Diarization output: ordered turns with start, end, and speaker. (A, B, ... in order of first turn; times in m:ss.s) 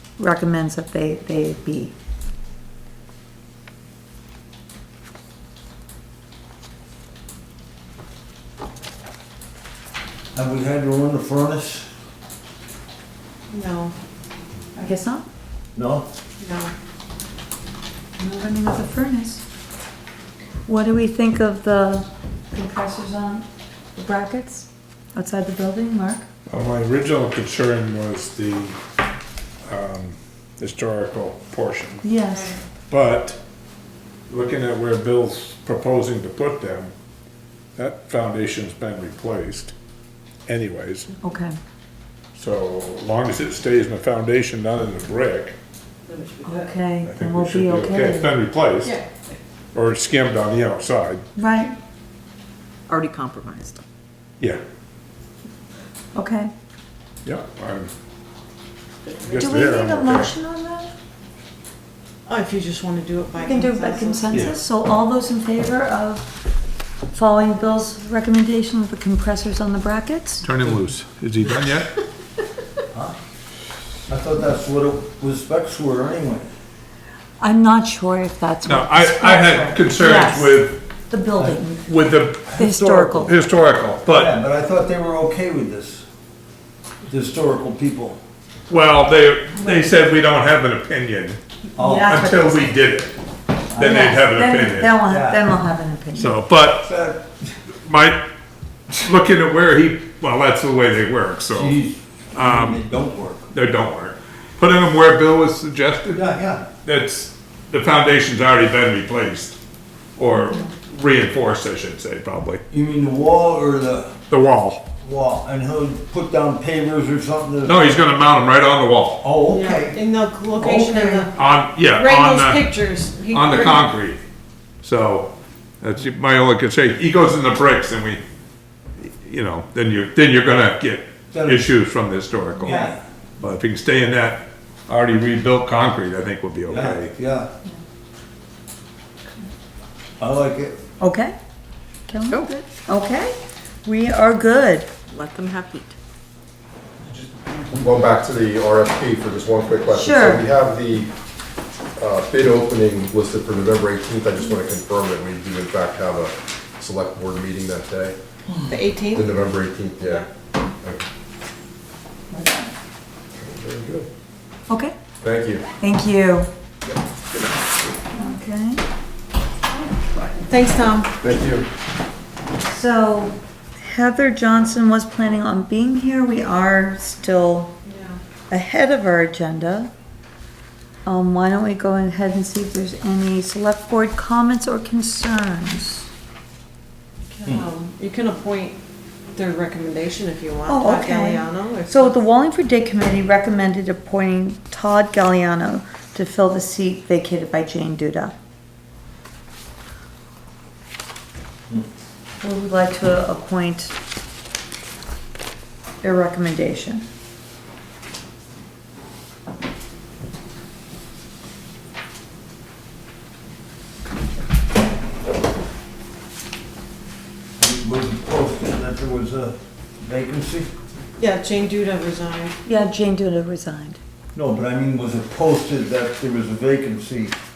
0:00.2-0:01.9 A
0:10.3-0:11.9 B
0:13.5-0:13.9 C
0:14.7-0:15.2 A
0:15.7-0:16.1 B
0:16.4-0:16.7 C
0:18.2-0:19.4 A
0:20.6-0:26.2 A
0:26.5-0:28.8 D
0:29.6-0:32.0 D
0:32.0-0:32.6 A
0:32.9-0:33.4 D
0:34.3-0:36.9 D
0:37.8-0:39.7 D
0:40.4-0:41.1 D
0:41.2-0:41.6 A
0:42.4-0:45.6 D
0:46.1-0:46.7 E
0:46.4-0:48.3 A
0:47.0-0:49.0 D
0:49.7-0:51.2 D
0:51.4-0:51.7 A
0:52.9-0:53.8 E
0:56.1-0:56.5 A
0:57.2-0:57.9 D
0:59.2-1:00.3 D
0:59.3-1:00.9 A
1:02.2-1:04.5 C
1:03.4-1:06.3 A
1:07.1-1:10.4 A
1:10.4-1:11.9 D
1:14.1-1:16.5 B
1:17.4-1:21.9 A
1:18.6-1:20.8 D
1:21.8-1:24.3 D
1:22.5-1:23.3 A
1:22.6-1:23.3 B
1:24.1-1:26.0 B
1:27.1-1:28.2 B
1:28.7-1:31.4 D
1:31.8-1:32.1 B
1:31.8-1:32.8 A
1:32.0-1:33.2 D
1:33.7-1:35.0 D
1:33.7-1:34.0 B
1:33.8-1:36.4 A
1:35.1-1:35.4 B
1:36.1-1:36.9 D
1:36.8-1:37.5 B
1:37.8-1:38.2 D
1:38.9-1:41.8 D
1:41.5-1:43.4 B
1:42.3-1:42.8 D
1:43.5-1:46.2 D
1:46.1-1:46.7 B
1:46.8-1:49.6 D
1:50.2-1:52.6 D
1:52.7-1:54.2 B
1:54.3-1:54.9 D
1:55.0-1:57.9 B
1:57.6-1:59.2 D
1:59.2-2:00.0 B
1:59.5-2:01.4 C
2:00.6-2:01.3 B
2:01.4-2:02.7 D
2:01.9-2:03.9 C
2:03.3-2:04.2 D
2:04.8-2:08.2 D
2:09.0-2:17.1 D
2:11.3-2:11.7 B
2:12.6-2:13.0 B
2:16.7-2:17.5 B
2:20.2-2:20.8 B
2:21.0-2:21.3 A
2:22.1-2:24.9 A
2:22.3-2:22.6 E
2:25.1-2:25.9 E
2:27.7-2:31.1 F
2:29.9-2:30.4 A
2:32.0-2:38.2 F
2:38.7-2:39.3 C
2:39.1-2:40.3 F
2:42.3-2:42.7 A
2:43.4-2:44.1 F
2:44.7-2:44.9 A
2:45.2-2:45.6 F
2:45.8-2:46.5 A
2:48.1-2:48.8 A
2:50.5-2:51.1 C
2:51.2-2:51.7 F
2:52.6-2:57.7 A
2:57.8-2:58.2 C
2:58.5-2:59.9 A
3:01.0-3:06.0 A
3:07.3-3:08.8 C
3:09.3-3:12.2 C
3:10.7-3:18.3 A
3:22.4-3:23.9 A
3:26.0-3:27.0 A
3:37.6-3:40.7 B
3:41.2-3:42.6 C
3:42.6-3:44.0 A
3:44.3-3:47.3 B